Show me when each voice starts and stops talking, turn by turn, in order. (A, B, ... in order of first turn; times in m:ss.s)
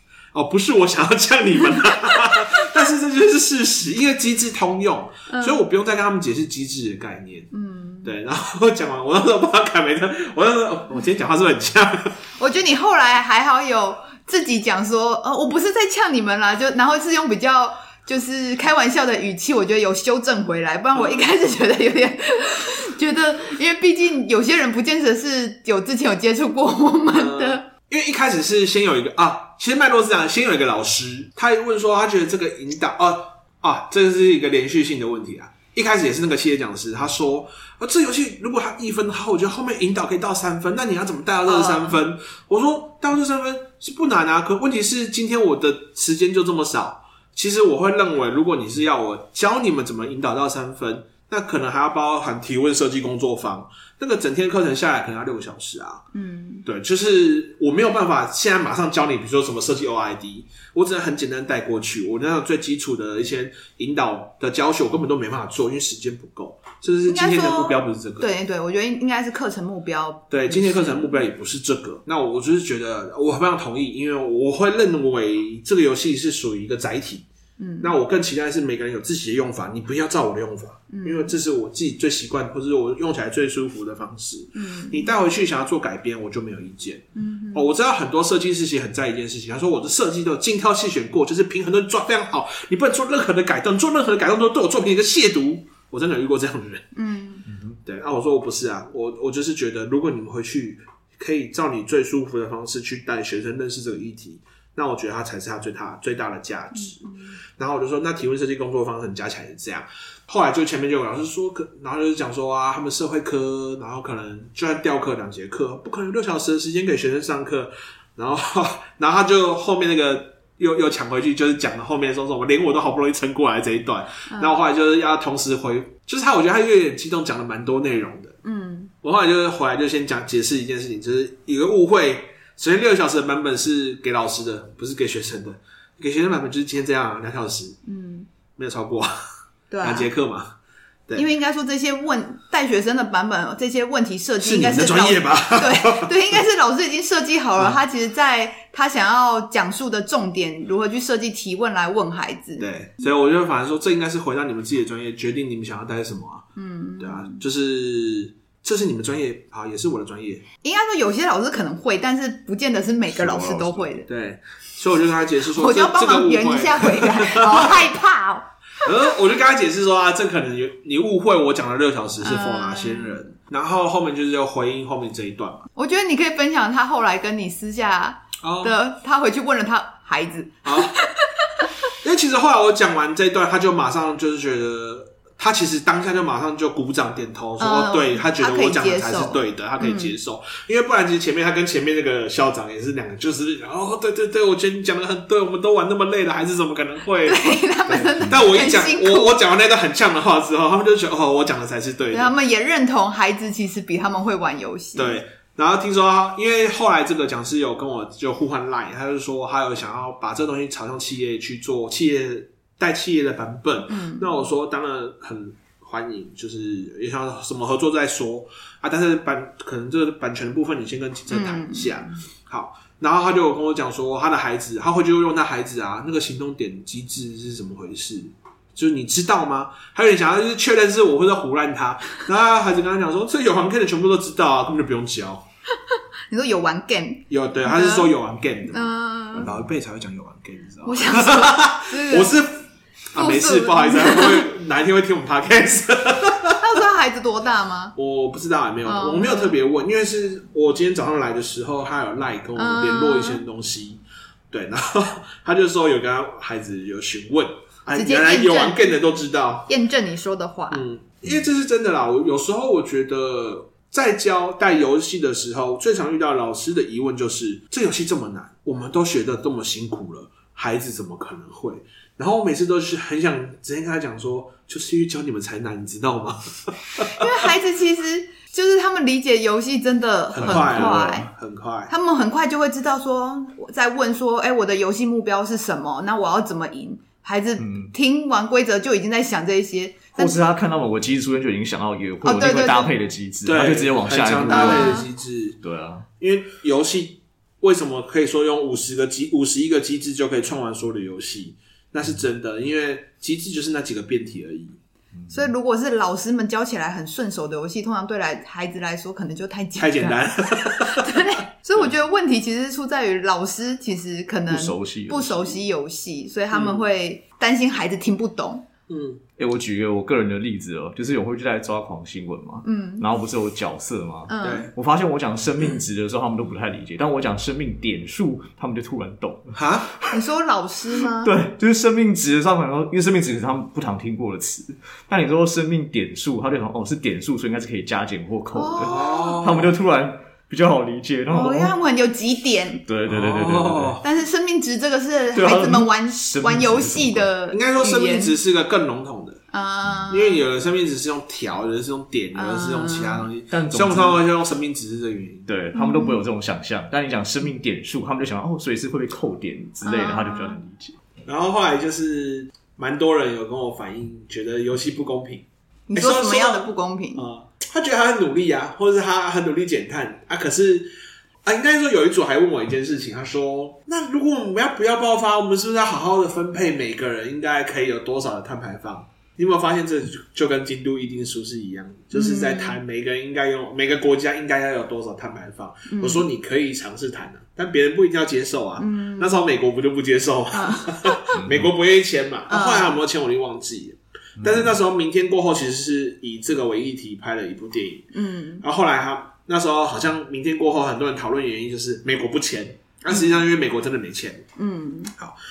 0:00.3-0:07.5 A
0:05.3-0:05.6 B
0:07.5-0:08.1 B
0:08.0-0:12.1 A
0:12.4-0:27.6 B
0:27.1-0:56.0 A
0:41.5-0:42.0 B
0:56.1-0:56.6 B
0:56.6-1:08.3 A
1:07.1-1:11.2 B
1:10.3-1:17.3 A
1:17.6-1:17.9 B
1:17.8-1:36.8 A
1:20.9-1:21.3 B
1:24.5-1:25.1 B
1:27.2-1:27.7 B
1:36.9-1:37.5 B
1:37.8-1:47.1 A
1:47.6-2:08.4 A
2:04.3-2:04.6 B
2:08.4-2:08.9 B
2:09.0-2:17.8 A
2:17.8-2:18.3 B
2:18.6-2:19.1 A
2:19.7-2:20.1 B
2:19.8-2:20.5 A
2:21.1-2:32.7 B
2:24.4-2:26.1 A
2:32.6-2:36.5 A
2:36.6-2:37.4 B
2:37.0-2:40.4 A
2:40.6-2:44.1 B
2:43.5-2:47.9 A
2:45.5-2:48.5 B
2:48.8-2:55.7 A
2:52.2-2:53.2 B
2:55.8-3:01.3 B
2:58.4-2:58.8 A
3:00.6-3:00.9 A
3:02.0-3:22.3 A
3:07.6-3:10.1 B
3:17.2-3:19.3 B
3:22.1-3:25.2 B
3:25.0-3:55.4 A
3:33.9-3:34.3 B
3:41.3-3:42.1 B
3:56.3-3:58.1 B
3:57.3-4:06.6 A
3:58.7-3:59.5 B
4:00.8-4:02.4 B
4:03.1-4:04.4 B
4:06.6-4:07.9 B
4:08.0-4:19.7 A
4:08.8-4:09.6 B
4:12.6-4:13.4 B
4:17.9-4:18.9 B
4:19.7-4:20.8 B
4:20.7-4:37.5 A
4:37.1-4:41.3 B
4:40.3-4:41.9 A
4:40.4-4:41.2 C
4:41.9-4:50.4 B
4:47.6-4:47.9 C
4:50.1-4:55.0 C
4:52.2-4:52.9 B
4:53.4-4:55.6 A
4:54.5-4:55.0 B
4:55.6-4:56.0 C
4:56.2-5:04.8 A
5:05.3-5:10.2 B
5:09.8-5:11.1 A
5:10.7-5:18.6 B
5:14.5-5:15.6 C
5:16.5-5:16.8 A
5:18.9-5:19.2 A
5:19.4-5:30.1 C
5:22.6-5:23.0 B
5:24.3-5:24.7 B
5:24.4-5:24.7 A
5:29.5-5:29.9 A
5:30.1-5:31.3 B
5:31.2-5:41.7 C
5:38.5-5:39.4 B
5:38.8-5:39.7 A
5:41.3-5:42.8 B
5:42.9-5:44.0 C
5:43.1-5:44.0 A
5:44.0-5:48.3 B
5:45.3-5:47.3 C
5:47.5-5:49.4 A
5:49.5-5:50.4 B
5:50.1-5:55.5 A
5:52.3-5:53.3 B
5:53.5-5:54.2 C
5:55.5-6:01.0 C
5:55.7-5:56.2 B
5:59.8-6:00.6 B
6:01.2-6:10.9 A
6:05.9-6:07.2 B
6:11.4-6:38.1 A
6:22.1-6:22.8 B
6:25.9-6:26.2 B
6:28.8-6:29.4 B
6:30.5-6:31.4 B
6:31.4-6:31.7 C
6:32.5-6:33.0 B
6:34.4-6:34.7 C
6:38.1-6:38.6 B
6:38.6-6:44.4 A
6:43.1-6:43.4 B
6:44.6-6:45.1 B